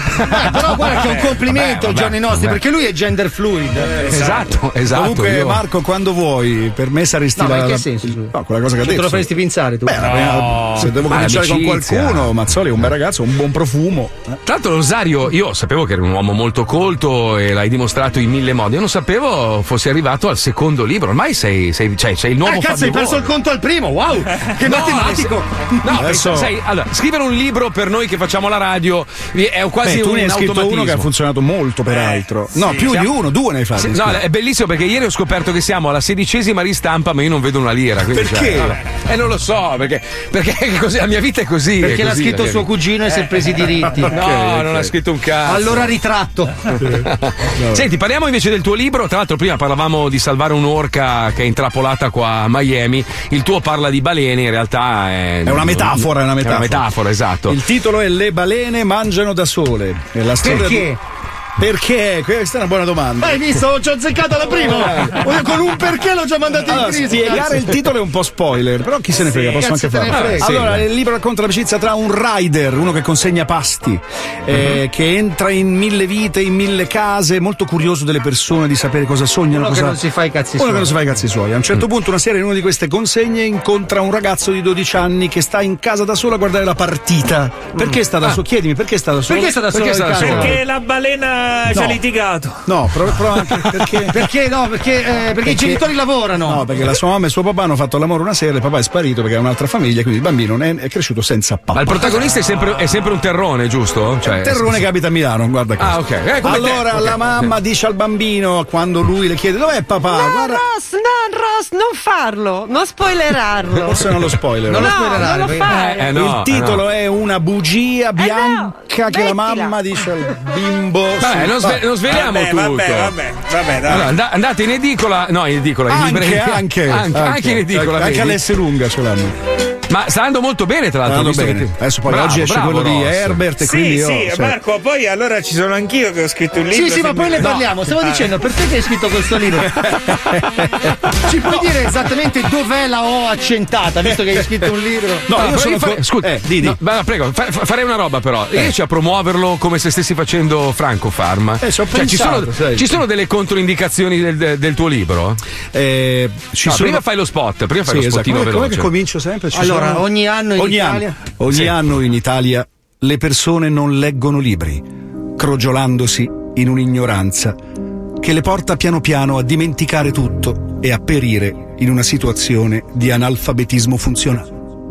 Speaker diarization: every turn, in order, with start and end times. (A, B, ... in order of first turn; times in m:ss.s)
0:00.3-0:04.3 A
0:01.4-0:02.6 B
0:04.1-0:05.6 B
0:04.9-0:09.3 C
0:07.4-0:10.7 A
0:09.8-0:14.4 C
0:10.2-0:10.6 D
0:11.1-0:12.4 B
0:14.5-0:23.3 B
0:22.4-0:25.8 A
0:24.6-0:31.1 B
0:25.9-0:26.5 C
0:29.8-0:34.2 C
0:31.9-0:33.0 D
0:33.8-0:42.7 B
0:41.8-0:44.1 A
0:44.1-0:46.0 B
0:44.1-0:44.9 C
0:45.5-0:46.6 A
0:46.7-0:47.9 C
0:47.0-0:57.6 B
0:55.4-0:56.9 C
0:57.5-1:01.0 C
1:00.4-1:01.0 A
1:01.6-1:03.5 C
1:03.2-1:07.6 A
1:04.6-1:05.2 C
1:06.6-1:20.0 C
1:09.2-1:10.6 A
1:10.1-1:10.8 B
1:19.5-1:21.0 A
1:20.6-1:29.6 C
1:29.3-1:30.6 A
1:29.7-1:30.5 B
1:30.2-1:30.5 C
1:30.2-1:32.6 D
1:31.7-1:32.0 C
1:32.7-1:34.2 C
1:34.1-1:36.6 A
1:35.4-1:35.8 C
1:36.4-1:42.4 C
1:41.7-1:44.8 B
1:44.2-1:50.6 C
1:45.8-1:47.2 B
1:50.1-1:54.0 E
1:53.8-2:01.8 C
1:54.7-1:55.7 A
1:54.8-1:56.1 E
1:55.7-1:56.8 B
1:58.2-1:59.8 E
2:01.2-2:03.1 B
2:02.0-2:04.1 D
2:03.9-2:08.4 B
2:05.9-2:09.4 C
2:09.9-2:13.4 B
2:11.0-2:14.6 C
2:13.6-2:17.6 D
2:16.7-2:19.8 A
2:21.3-2:25.3 A
2:25.3-2:26.8 C
2:25.3-2:35.4 B
2:31.6-2:33.0 C
2:35.7-2:37.0 C
2:36.6-2:38.9 B
2:37.8-2:44.8 C
2:39.5-2:41.2 A
2:45.4-2:47.6 C
2:48.2-2:54.5 C